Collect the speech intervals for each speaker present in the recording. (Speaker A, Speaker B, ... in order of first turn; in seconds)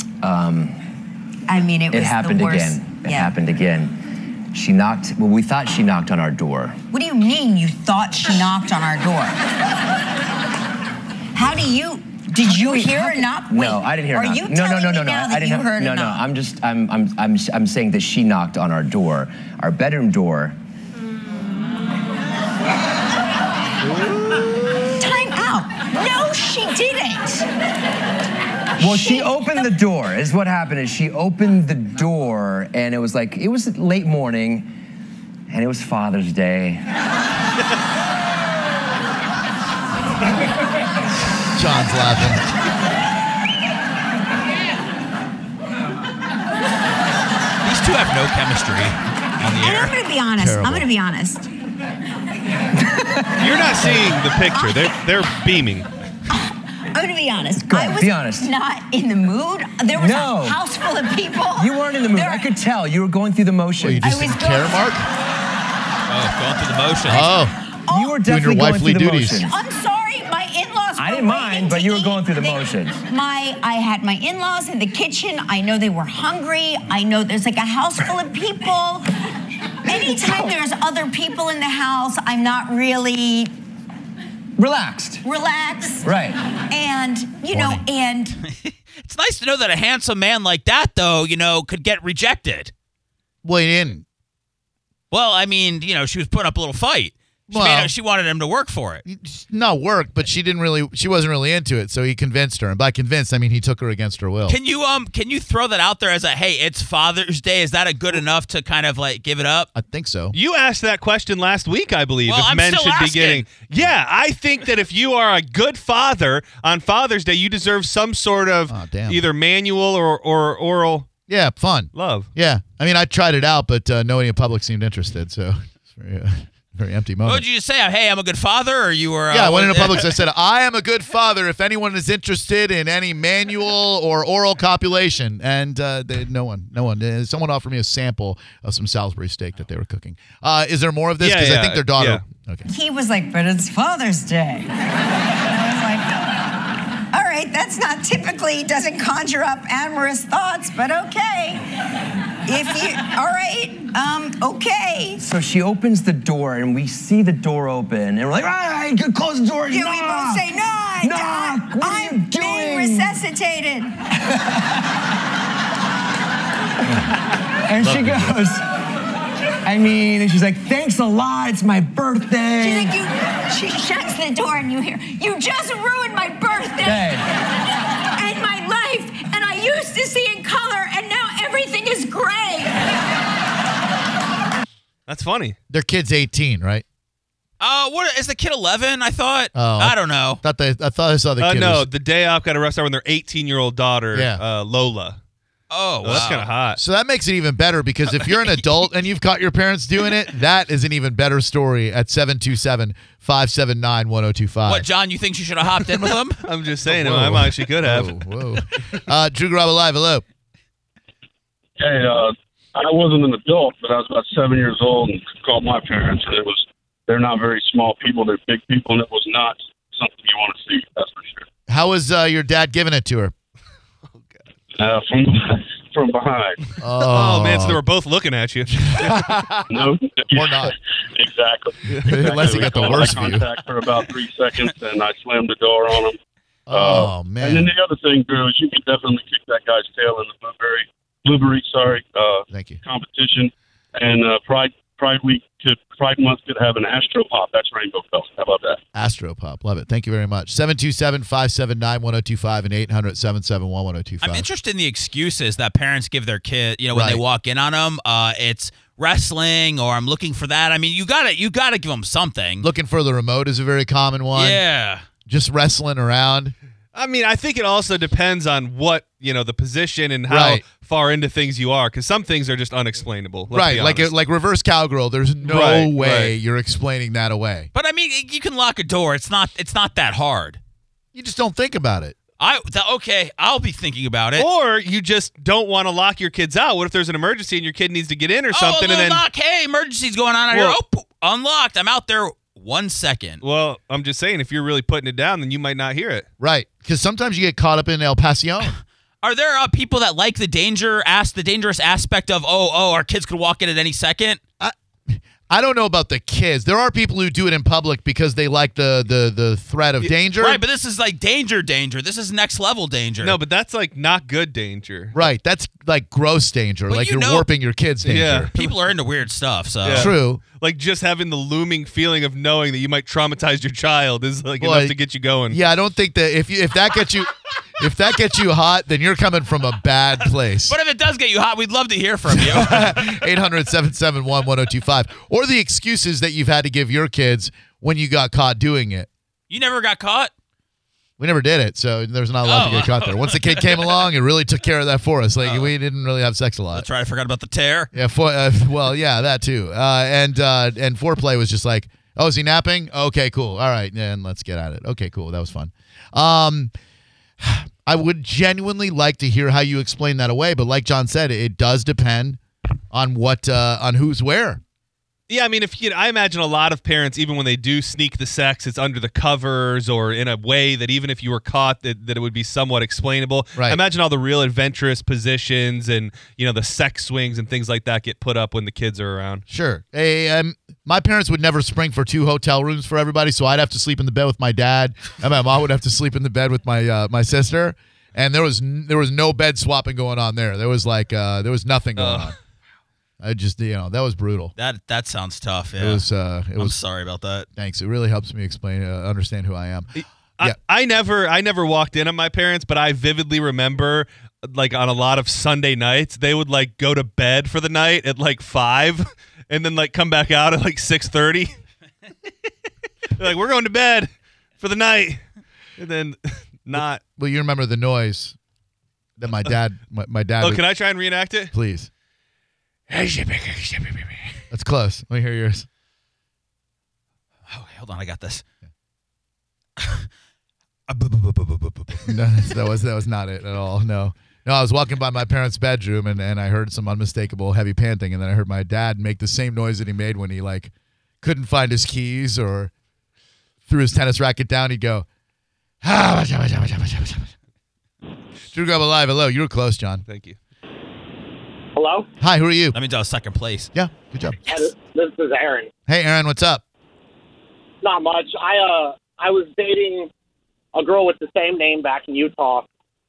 Speaker A: 0.2-0.8, 1.9-6.8, 12.4-20.6, 28.8-34.7, 35.5-36.9, 53.8-54.1, 57.6-58.5, 59.9-60.6, 61.5-64.2, 67.9-69.6, 71.0-73.0, 79.9-80.5, 84.6-85.3, 86.0-86.4, 155.2-160.5, 161.0-163.2, 164.3-164.6, 167.7-168.6, 169.6-173.0, 176.8-177.3
Speaker B: 1.5-3.3, 6.9-9.4, 11.3-16.2, 25.0-27.5, 28.8-29.5, 49.5-51.5, 54.5-54.9, 56.3-62.5, 64.0-64.9, 67.9-68.2, 69.4-79.1, 79.9-83.5, 85.2-86.2, 86.7-88.4, 142.7-144.7, 145.5-146.2, 147.1-151.6, 152.5-155.2, 159.7-163.9, 172.6-177.2, 178.2-182.9
Speaker C: 41.6-42.4, 50.4-50.9, 63.8-65.1, 67.1-67.5, 68.2-69.4, 87.5-87.8, 93.4-94.0, 97.5-97.9, 99.0-104.6, 109.8-110.3, 118.7-119.2, 121.3-127.4, 129.3-142.7, 167.8-168.3, 185.7-186.8, 189.6-191.9, 194.1-194.4, 196.1-204.9, 206.9-210.2, 221.7-223.3, 226.8-227.8, 228.9-230.7, 232.0-233.5, 236.7-237.7, 242.5-242.8, 248.9-254.5, 256.9-257.2, 262.6-264.6, 265.3-266.6, 270.3-270.6, 273.5-277.7, 281.1-282.1, 296.4-298.8, 304.6-310.6, 315.1-318.5, 319.9-320.4, 324.6-325.0, 325.5-330.8, 332.4-339.1, 341.2-346.9, 347.9-356.7, 357.4-362.4, 362.9-364.6, 379.5-392.4, 393.2-394.5, 395.8-396.8, 397.6-399.9, 416.7-418.4, 419.2-420.6, 421.5-421.9, 424.5-425.7, 432.1-440.7, 441.2-442.7, 443.7-445.1, 445.8-447.3, 448.5-450.0, 452.2-452.8, 453.7-454.5, 455.9-456.6
Speaker D: 47.6-50.0, 66.1-67.3, 88.5-92.7, 95.1-99.0, 104.5-109.7, 112.3-113.6, 127.2-130.2, 187.6-190.4, 195.7-196.6, 204.7-206.4, 254.2-262.7, 264.3-265.0, 277.7-280.6, 282.4-284.5, 288.5-293.4, 299.2-304.4, 310.4-313.4, 316.9-317.5, 318.5-320.1, 330.6-333.0, 339.5-340.3, 342.4-344.1, 345.4-345.7, 346.7-347.9, 394.6-397.5, 427.5-428.4, 429.8-430.1, 430.9-432.1, 452.7-453.7
Speaker E: 53.4-55.9, 110.3-121.1, 121.9-122.3, 141.2-142.3, 185.1-185.6, 191.4-195.2, 196.0-196.8, 206.4-208.2, 224.1-224.4, 227.1-229.2, 231.9-232.9, 266.9-274.1, 275.4-276.4, 284.4-289.2, 290.5-290.8, 293.4-296.3, 313.2-315.2, 318.0-318.9, 319.8-325.6, 365.3-379.4, 392.0-392.4, 400.0-411.6, 413.1-415.2, 415.8-417.0, 420.4-421.5, 422.9-424.3, 450.1-450.4
Speaker F: 211.8-221.4, 224.8-226.6, 229.7-236.2, 236.7-248.8
Speaker G: 451.8-452.1, 454.5-455.7, 457.8-460.1, 460.8-462.7